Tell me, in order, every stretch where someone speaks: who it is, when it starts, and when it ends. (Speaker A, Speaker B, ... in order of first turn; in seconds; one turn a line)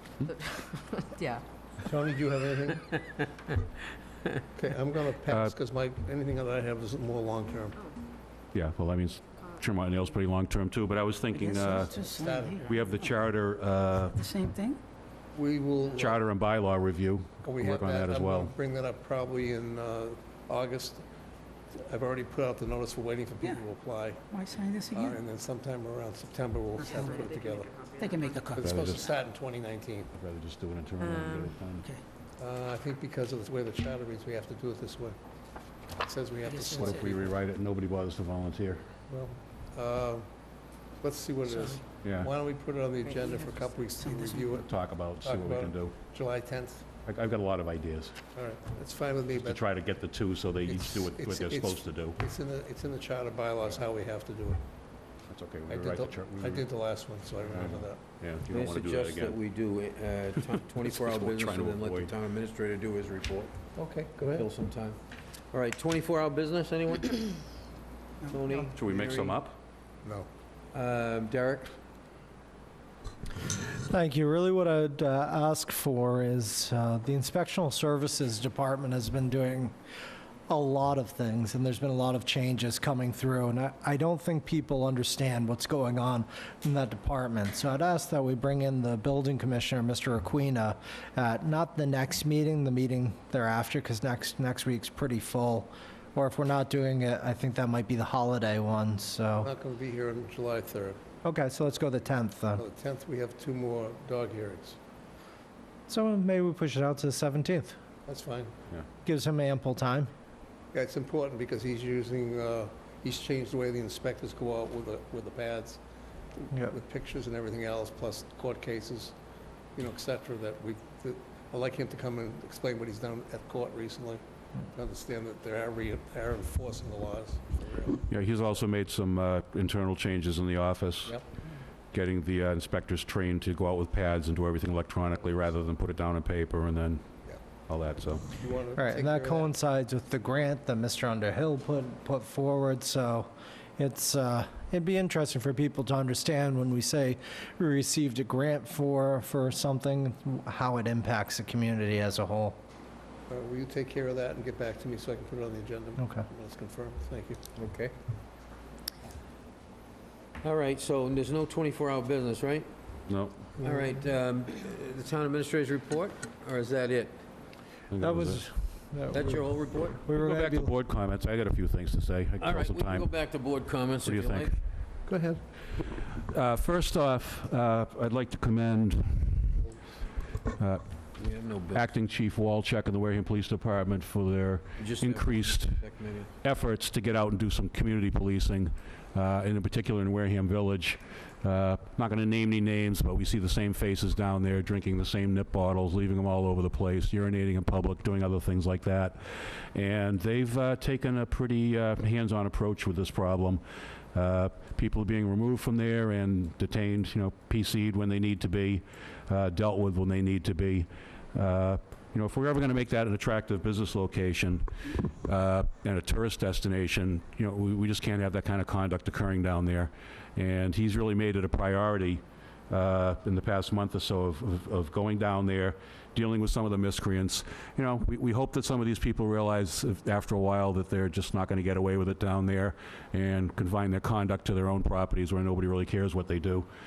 Speaker A: 0.2-1.4
Speaker B: 1.8-2.9
Speaker B: 4.5-7.8
Speaker C: 5.3-5.5
Speaker A: 7.7-8.0
Speaker C: 8.5-12.0
Speaker A: 9.3-10.2
Speaker D: 11.3-13.1
Speaker B: 11.8-12.8
Speaker C: 12.6-14.2
Speaker D: 14.1-14.8
Speaker B: 15.3-16.3
Speaker C: 15.9-18.5
Speaker B: 17.4-21.0
Speaker B: 21.8-24.2
Speaker D: 24.3-25.2
Speaker B: 24.9-27.7
Speaker D: 26.8-27.3
Speaker A: 26.8-28.6
Speaker D: 28.0-29.1
Speaker B: 28.5-30.1
Speaker C: 28.6-29.1
Speaker C: 30.1-31.9
Speaker A: 31.0-31.5
Speaker B: 32.4-35.2
Speaker B: 36.0-37.3
Speaker D: 36.5-37.0
Speaker C: 36.7-38.8
Speaker B: 39.1-40.3
Speaker B: 41.0-46.8
Speaker D: 41.5-41.8
Speaker C: 42.0-42.3
Speaker D: 43.2-44.6
Speaker C: 44.6-46.0
Speaker C: 47.0-48.2
Speaker B: 48.3-49.6
Speaker C: 49.4-52.2
Speaker B: 50.7-54.6
Speaker C: 55.3-56.7
Speaker B: 55.7-58.0
Speaker C: 57.4-59.4
Speaker E: 58.5-63.5
Speaker C: 60.8-62.1
Speaker B: 63.8-64.5
Speaker E: 64.3-65.0
Speaker E: 65.5-67.4
Speaker E: 68.2-69.4
Speaker D: 68.3-68.7
Speaker C: 68.8-69.5
Speaker E: 70.7-71.8
Speaker F: 73.9-79.8
Speaker F: 80.5-99.5
Speaker B: 99.4-101.0
Speaker F: 101.2-102.6
Speaker B: 102.5-104.8
Speaker F: 105.9-107.8
Speaker B: 108.1-108.5
Speaker F: 109.0-110.1
Speaker B: 110.7-115.8
Speaker B: 116.4-119.1
Speaker F: 116.5-116.8
Speaker B: 119.8-124.2
Speaker B: 124.7-128.1
Speaker C: 128.1-131.2
Speaker C: 131.9-137.0
Speaker C: 137.7-138.3
Speaker B: 138.4-139.5
Speaker F: 138.7-152.6
Speaker B: 153.3-157.4
Speaker F: 156.0-156.3
Speaker E: 157.6-157.9
Speaker E: 160.4-162.7
Speaker C: 163.1-163.4
Speaker E: 163.6-167.2
Speaker C: 167.9-168.4
Speaker F: 168.0-170.8
Speaker E: 169.1-170.0
Speaker C: 170.2-173.2
Speaker E: 172.4-174.6
Speaker C: 174.0-174.5
Speaker B: 175.1-175.4
Speaker C: 175.8-179.7
Speaker C: 180.5-181.1
Speaker E: 181.2-182.0
Speaker C: 181.7-236.7
Speaker E: 184.8-186.3